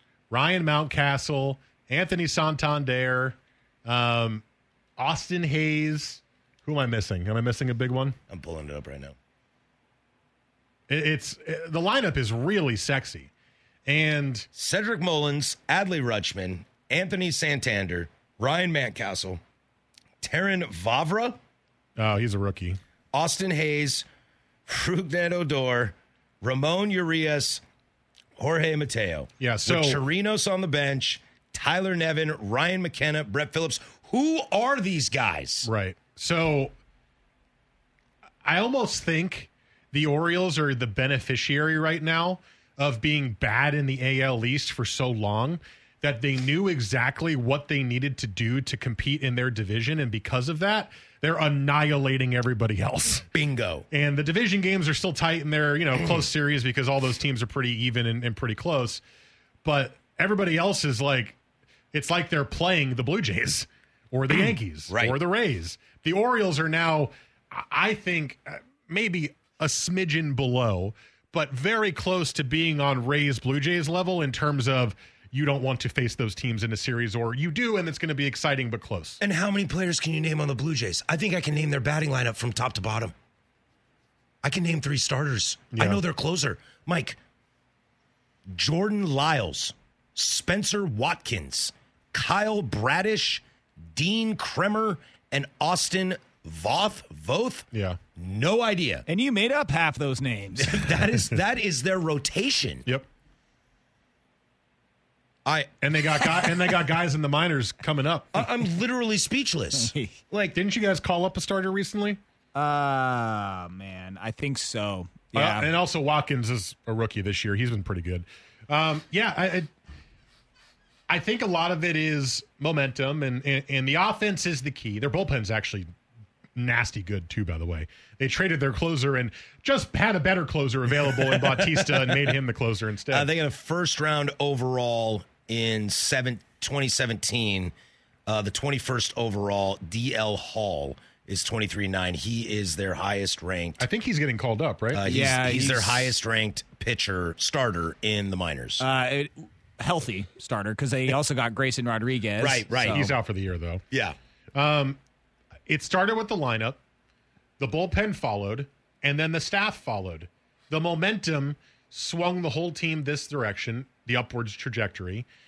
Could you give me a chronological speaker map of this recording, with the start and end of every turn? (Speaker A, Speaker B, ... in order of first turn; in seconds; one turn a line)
Speaker A: 0.3-4.4
Speaker A: 5.0-8.2
Speaker B: 8.3-9.1
Speaker A: 10.9-13.3
Speaker A: 13.8-14.5
Speaker B: 14.5-19.4
Speaker B: 20.2-21.4
Speaker A: 22.0-22.8
Speaker B: 23.1-24.1
Speaker B: 24.7-27.6
Speaker B: 28.4-35.7
Speaker A: 29.4-30.0
Speaker A: 35.6-36.7
Speaker A: 38.4-53.2
Speaker B: 53.3-53.9
Speaker A: 53.9-59.0
Speaker A: 59.6-61.4
Speaker A: 61.9-79.2
Speaker B: 64.3-65.2
Speaker B: 79.2-83.1
Speaker B: 84.4-87.2
Speaker A: 85.7-86.0
Speaker B: 88.5-99.0
Speaker A: 97.7-98.0
Speaker C: 99.1-100.9
Speaker B: 100.6-102.8
Speaker B: 105.4-105.7
Speaker A: 105.8-108.4
Speaker B: 108.3-110.6
Speaker C: 109.7-110.1
Speaker A: 110.5-112.2
Speaker C: 112.5-115.7
Speaker A: 115.3-119.7
Speaker A: 121.1-125.9
Speaker A: 126.5-133.3
Speaker B: 131.2-132.3
Speaker B: 133.1-137.7
Speaker B: 138.2-143.8
Speaker A: 143.8-145.0
Speaker B: 144.9-148.8
Speaker C: 145.0-146.1
Speaker C: 148.8-153.1
Speaker B: 152.4-153.1
Speaker A: 152.8-153.8
Speaker B: 153.9-154.2
Speaker A: 154.5-155.0
Speaker A: 155.7-156.8
Speaker A: 157.6-165.2